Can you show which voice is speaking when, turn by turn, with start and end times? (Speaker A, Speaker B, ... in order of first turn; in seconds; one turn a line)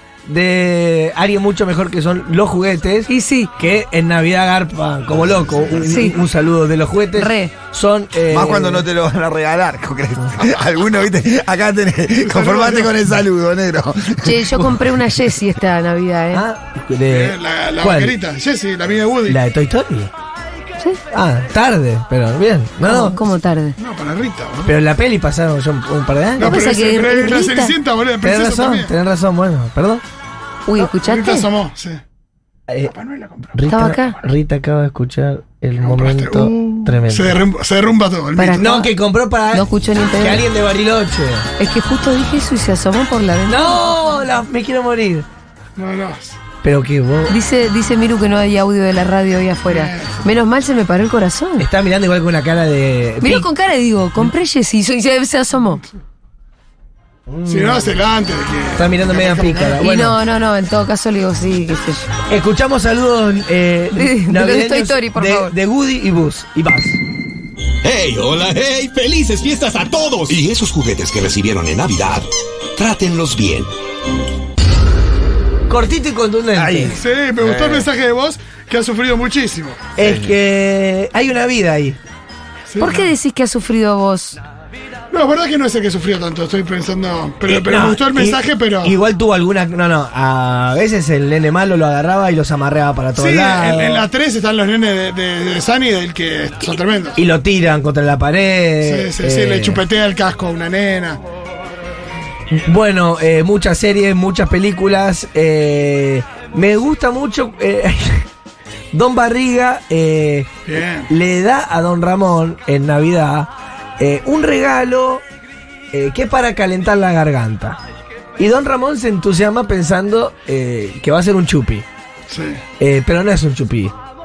Speaker A: 0.2-8.9
Speaker B: 3.1-3.5
Speaker B: 5.9-6.2
Speaker B: 7.2-7.5
Speaker C: 8.3-14.5
Speaker D: 12.2-13.0
Speaker B: 14.2-16.4
Speaker A: 16.3-18.2
Speaker D: 17.1-19.4
Speaker A: 19.3-20.1
Speaker A: 21.1-23.2
Speaker B: 22.8-23.8
Speaker D: 23.8-24.8
Speaker A: 24.6-26.6
Speaker D: 26.4-28.9
Speaker B: 26.4-27.8
Speaker A: 28.2-30.0
Speaker B: 30.7-31.5
Speaker D: 30.8-32.0
Speaker D: 32.9-33.6
Speaker A: 33.5-37.4
Speaker B: 33.7-34.2
Speaker D: 35.8-38.8
Speaker B: 38.4-38.9
Speaker A: 38.6-39.6
Speaker B: 39.5-40.5
Speaker A: 40.2-41.5
Speaker B: 41.6-44.1
Speaker A: 43.5-45.3
Speaker D: 45.8-46.4
Speaker A: 46.6-47.3
Speaker B: 47.3-51.6
Speaker D: 49.7-50.2
Speaker A: 51.6-53.5
Speaker B: 53.2-55.8
Speaker A: 57.3-58.0
Speaker D: 57.5-59.8
Speaker A: 58.8-60.2
Speaker B: 59.8-62.1
Speaker A: 62.3-67.0
Speaker B: 64.0-65.5
Speaker E: 67.8-73.7
Speaker A: 75.7-77.0
Speaker C: 76.6-77.9
Speaker D: 76.9-79.8
Speaker A: 80.0-82.0
Speaker C: 80.0-80.4
Speaker D: 82.7-83.1
Speaker B: 82.8-84.4
Speaker D: 85.1-88.9
Speaker A: 87.5-94.1
Speaker D: 93.2-97.2
Speaker A: 97.2-99.8
Speaker D: 98.8-101.2
Speaker A: 102.5-108.3
Speaker A: 108.9-115.2
Speaker D: 110.7-111.1
Speaker A: 115.9-117.8
Speaker A: 118.4-121.9
Speaker D: 122.3-122.6
Speaker A: 122.8-124.0